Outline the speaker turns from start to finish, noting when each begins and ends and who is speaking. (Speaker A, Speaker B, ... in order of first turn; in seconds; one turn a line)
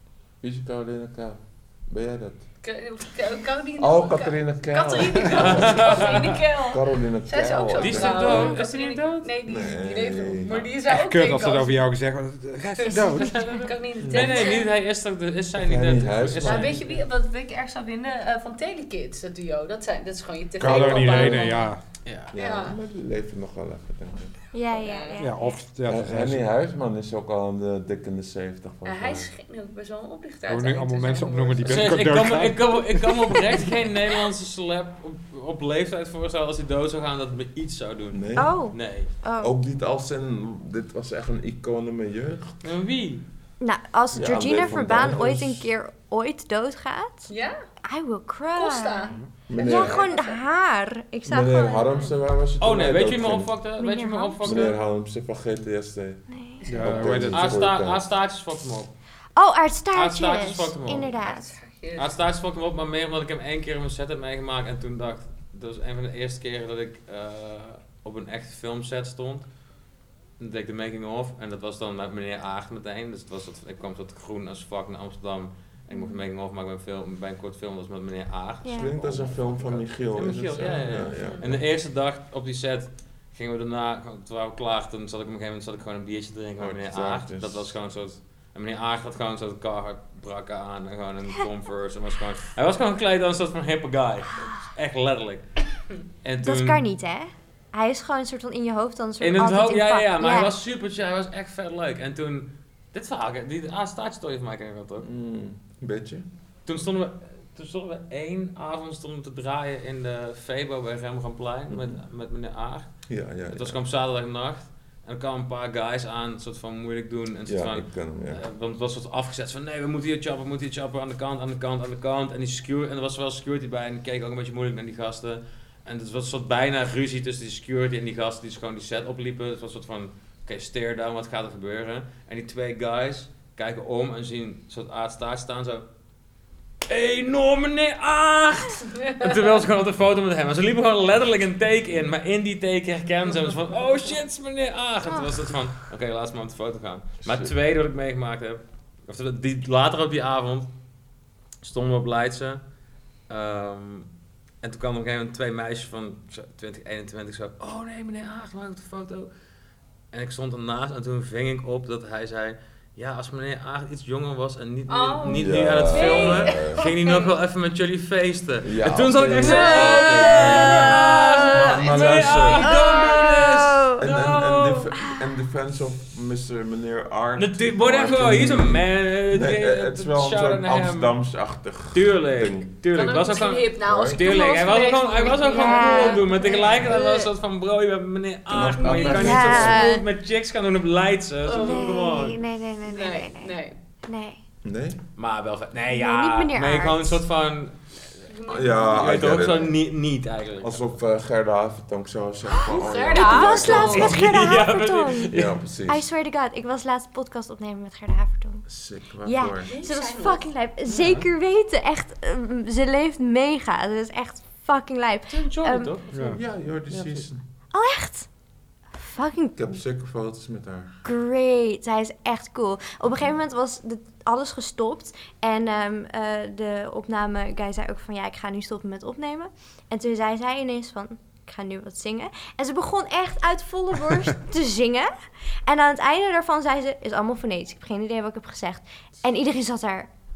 Speaker A: 0.4-2.5
Speaker B: 2.6-11.8
Speaker A: 3.8-8.5
Speaker C: 5.3-6.5
Speaker C: 7.8-9.3
Speaker D: 8.2-8.6
Speaker A: 9.4-10.6
Speaker C: 10.4-10.7
Speaker E: 10.9-13.5
Speaker B: 12.8-14.7
Speaker C: 13.2-17.0
Speaker A: 14.0-14.5
Speaker A: 15.6-16.9
Speaker B: 16.4-21.7
Speaker E: 20.6-21.8
Speaker A: 20.6-21.6
Speaker C: 22.1-22.3
Speaker A: 22.3-24.4
Speaker B: 22.4-22.8
Speaker D: 24.5-25.6
Speaker B: 24.8-25.2
Speaker E: 25.2-26.4
Speaker A: 25.9-29.3
Speaker B: 28.8-32.0
Speaker E: 30.5-33.4
Speaker C: 31.6-39.1
Speaker A: 38.1-38.6
Speaker D: 38.4-39.5
Speaker A: 39.4-42.7
Speaker C: 42.6-43.2
Speaker D: 43.6-47.3
Speaker A: 44.1-45.7
Speaker B: 47.3-47.6
Speaker D: 47.9-52.1
Speaker B: 48.5-50.4
Speaker A: 49.5-50.1
Speaker A: 51.3-53.5
Speaker C: 52.6-54.8
Speaker D: 53.8-54.8
Speaker A: 54.4-56.2
Speaker D: 56.3-56.8
Speaker B: 56.6-57.0
Speaker E: 56.7-57.6
Speaker A: 56.8-58.0
Speaker C: 57.3-58.9
Speaker D: 59.4-61.5
Speaker C: 59.9-61.1
Speaker B: 61.2-62.2
Speaker C: 62.0-69.5
Speaker C: 70.4-95.4
Speaker D: 75.9-76.2
Speaker D: 78.6-78.9
Speaker A: 78.7-81.6
Speaker B: 81.1-81.6
Speaker A: 86.6-87.8
Speaker C: 96.2-96.8
Speaker D: 96.4-100.5
Speaker C: 99.2-105.1
Speaker A: 105.0-106.3
Speaker C: 106.7-113.0
Speaker A: 111.7-112.0
Speaker A: 113.1-113.8
Speaker C: 113.5-135.9
Speaker A: 117.5-118.4
Speaker C: 136.9-150.7
Speaker D: 145.0-145.4
Speaker A: 147.2-147.5
Speaker C: 151.6-152.6
Speaker C: 153.3-154.1
Speaker C: 154.6-159.3
Speaker C: 160.1-174.7
Speaker B: 164.9-167.3
Speaker A: 165.3-166.9
Speaker A: 168.6-172.8
Speaker B: 169.4-173.0
Speaker D: 169.5-171.8
Speaker D: 172.6-174.0
Speaker A: 174.0-182.7
Speaker C: 177.4-181.2
Speaker C: 181.9-192.4
Speaker B: 182.9-187.3
Speaker A: 183.9-184.2
Speaker D: 185.4-186.7
Speaker A: 188.5-189.9
Speaker B: 188.8-189.3
Speaker D: 189.1-190.0
Speaker B: 191.5-192.3
Speaker D: 191.5-193.5
Speaker B: 192.8-193.8
Speaker D: 194.1-194.4
Speaker A: 194.6-195.0
Speaker C: 195.2-200.9
Speaker D: 195.9-197.2
Speaker B: 198.3-198.9
Speaker A: 198.5-199.8
Speaker A: 200.6-204.3
Speaker B: 202.5-204.2
Speaker D: 203.1-205.3
Speaker C: 203.6-205.6
Speaker A: 205.3-206.1
Speaker D: 205.9-208.6
Speaker A: 208.7-209.7
Speaker D: 209.2-215.9
Speaker B: 209.6-210.5
Speaker C: 210.9-211.3
Speaker C: 215.3-217.3
Speaker E: 216.1-216.4
Speaker A: 216.3-217.4
Speaker D: 217.7-218.3
Speaker D: 218.9-219.6
Speaker A: 219.6-221.0
Speaker D: 221.0-235.1
Speaker D: 235.7-240.1